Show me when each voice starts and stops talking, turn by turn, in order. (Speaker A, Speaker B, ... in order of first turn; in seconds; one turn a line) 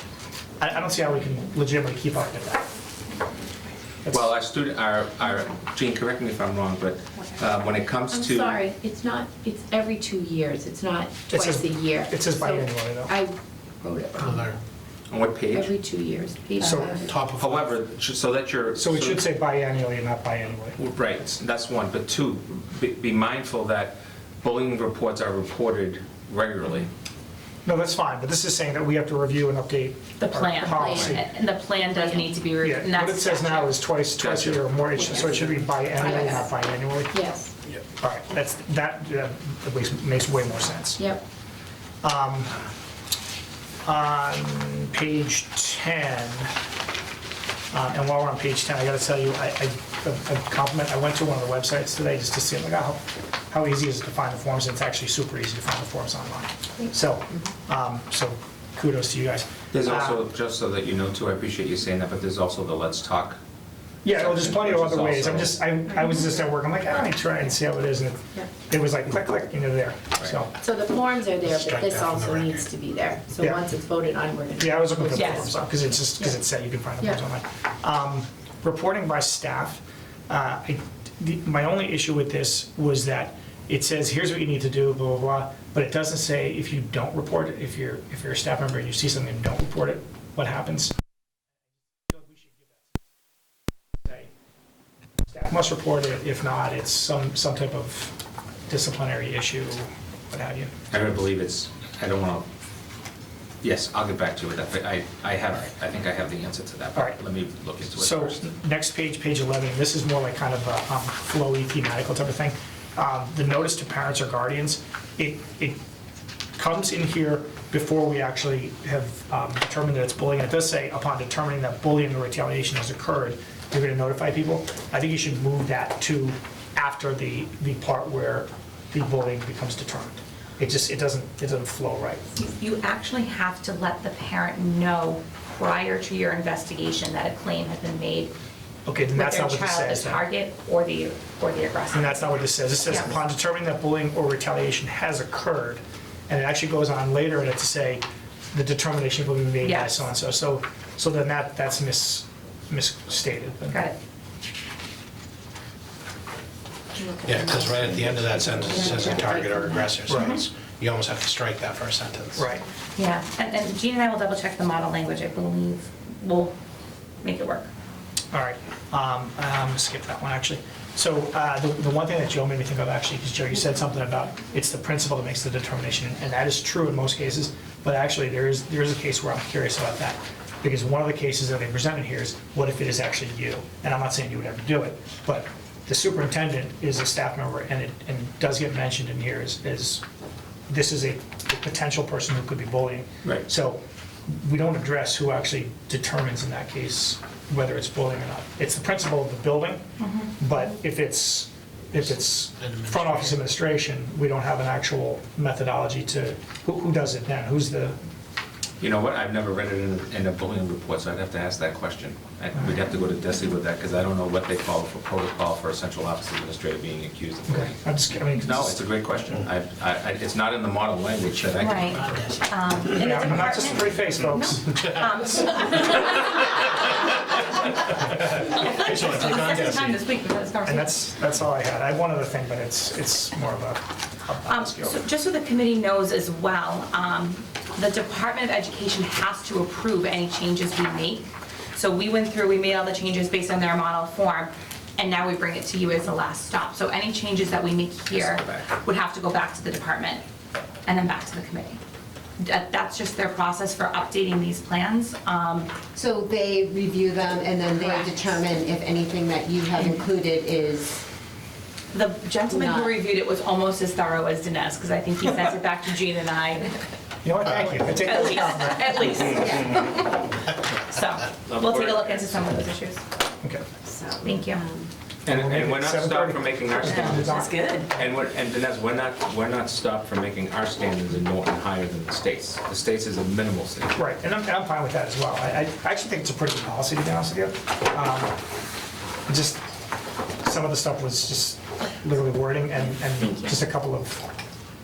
Speaker A: 0.6-2.7
Speaker B: 4.1-8.6
Speaker C: 8.1-14.5
Speaker A: 11.3-13.1
Speaker B: 15.1-15.8
Speaker C: 15.5-17.1
Speaker A: 16.6-17.1
Speaker D: 17.1-17.6
Speaker B: 17.3-19.2
Speaker A: 18.8-20.8
Speaker B: 20.8-26.9
Speaker A: 27.6-31.2
Speaker E: 30.2-33.8
Speaker C: 30.7-31.1
Speaker B: 30.9-31.2
Speaker C: 31.9-32.3
Speaker A: 32.6-37.2
Speaker B: 34.2-35.1
Speaker E: 36.0-36.5
Speaker C: 36.0-36.5
Speaker C: 37.1-37.5
Speaker A: 38.0-41.1
Speaker C: 41.0-41.2
Speaker A: 42.0-42.5
Speaker A: 43.9-46.5
Speaker A: 47.7-60.2
Speaker B: 59.7-63.4
Speaker A: 64.0-70.5
Speaker B: 64.1-65.7
Speaker C: 70.5-76.3
Speaker F: 71.7-72.6
Speaker A: 74.6-91.0
Speaker E: 75.2-75.5
Speaker A: 92.1-92.6
Speaker A: 95.3-98.2
Speaker A: 98.7-100.7
Speaker B: 100.9-102.5
Speaker B: 103.6-108.4
Speaker A: 108.0-115.8
Speaker A: 116.6-132.2
Speaker E: 132.4-138.3
Speaker A: 138.9-140.2
Speaker E: 139.1-143.1
Speaker A: 141.9-153.8
Speaker E: 149.6-150.0
Speaker E: 153.7-154.0
Speaker C: 157.0-157.8
Speaker D: 157.2-162.4
Speaker E: 158.7-159.3
Speaker C: 159.3-159.6
Speaker A: 160.1-160.4
Speaker E: 160.1-160.4
Speaker A: 162.4-162.7
Speaker E: 163.0-166.6
Speaker E: 167.2-167.7
Speaker A: 168.3-190.0
Speaker A: 190.7-199.8
Speaker E: 200.0-200.3
Speaker A: 200.4-208.0
Speaker B: 208.8-217.8
Speaker A: 217.5-218.8
Speaker B: 218.4-221.9
Speaker E: 221.6-227.5
Speaker A: 223.0-225.1
Speaker E: 228.3-231.0
Speaker D: 228.8-229.9
Speaker A: 230.7-235.0
Speaker E: 234.5-250.2
Speaker B: 248.1-248.7
Speaker E: 250.8-251.8
Speaker E: 252.4-255.8
Speaker F: 255.9-261.1
Speaker E: 257.8-258.3
Speaker E: 261.9-266.8
Speaker F: 262.5-263.0
Speaker A: 267.2-269.0
Speaker E: 267.8-273.0
Speaker B: 271.5-272.5
Speaker E: 274.2-274.6
Speaker B: 275.3-284.0
Speaker A: 275.3-277.8
Speaker E: 276.8-277.9
Speaker A: 283.9-288.4
Speaker A: 289.3-289.7
Speaker A: 290.4-294.3
Speaker E: 293.2-293.6